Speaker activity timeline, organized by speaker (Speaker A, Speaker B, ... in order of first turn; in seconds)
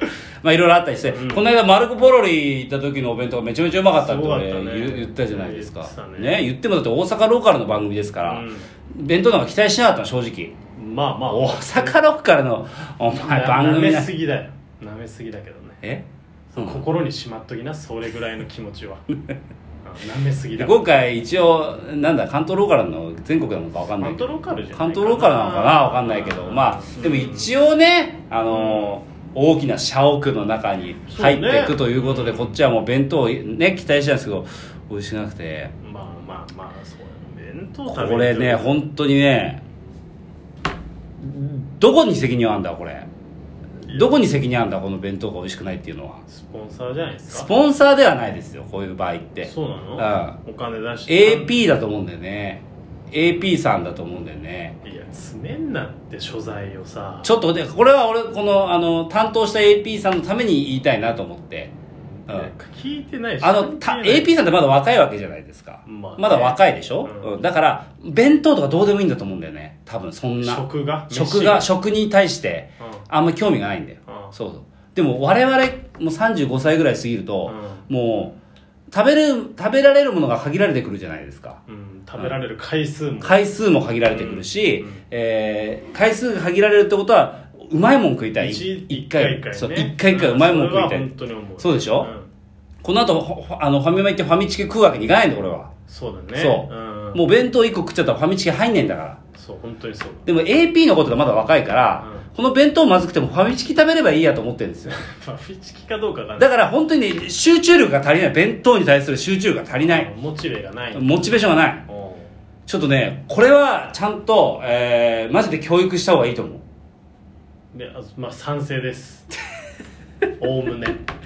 Speaker A: 0.4-10.6, 11.3-14.1, 15.8-16.9, 20.6-35.7, 37.9-39.6, 41.2-43.1, 43.9-46.2, 47.3-50.4, 51.1-54.8, 57.2-61.7, 63.4-78.4, 78.9-81.6, 83.2-92.1, 92.8-95.7, 96.4-99.2, 100.3-105.0, 106.4-110.1, 110.9-111.8, 112.7-116.6
Speaker B: 1.1-1.5, 3.9-6.4, 8.2-8.7, 10.8-12.0, 13.2-15.8, 16.5-19.1, 19.8-20.9, 24.0-27.5, 28.5-29.0, 31.1-32.6, 35.8-38.9, 46.3-47.5, 49.5-51.5, 54.8-57.3, 62.2-64.3, 65.9-67.3, 70.4-71.7, 72.8-73.0, 74.1-74.3, 77.5-77.8, 81.7-83.4, 84.1-85.0, 88.4-92.3, 95.9-97.2, 99.3-100.2, 102.0-102.3, 104.9-106.5, 109.8-111.3, 111.9-112.3, 117.7-119.3, 120.4-121.0